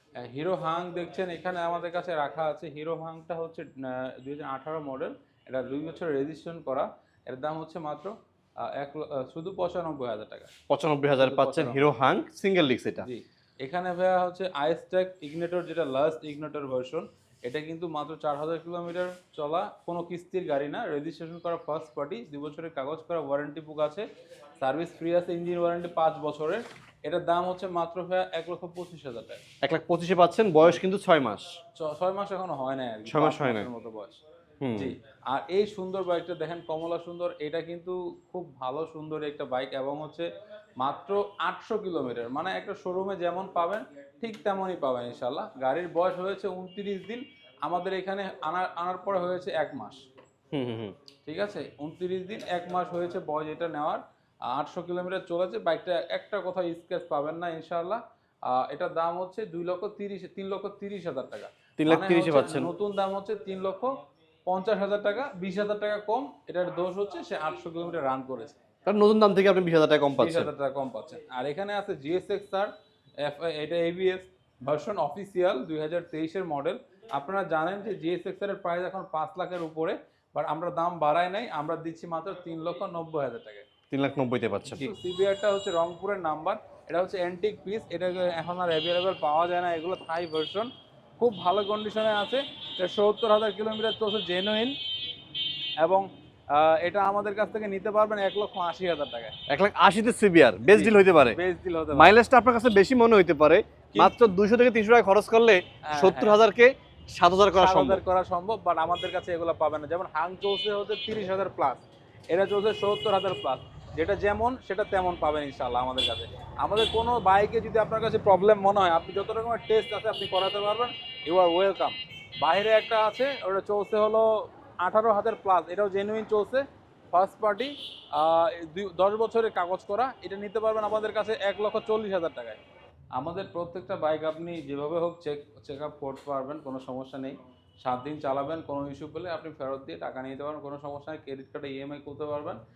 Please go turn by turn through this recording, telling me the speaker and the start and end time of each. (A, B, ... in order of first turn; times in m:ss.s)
0:00.2-0:10.5 A
0:10.7-0:13.0 B
0:11.2-0:11.9 A
0:13.0-0:24.0 A
0:24.6-0:29.4 A
0:29.6-0:31.5 B
0:31.8-0:34.2 A
0:33.1-0:33.7 B
0:34.6-0:34.9 B
0:34.7-0:40.2 A
0:40.8-0:50.0 A
0:50.5-0:50.9 B
0:51.2-1:08.6 A
1:01.8-1:02.7 B
1:08.8-1:10.5 B
1:10.2-1:23.6 A
1:23.9-1:24.9 B
1:24.7-1:34.7 A
1:35.8-1:39.3 A
1:39.5-1:41.4 B
1:40.7-1:42.1 A
1:41.9-1:48.0 B
1:45.8-1:46.4 A
1:47.6-2:12.6 A
2:13.1-2:22.6 A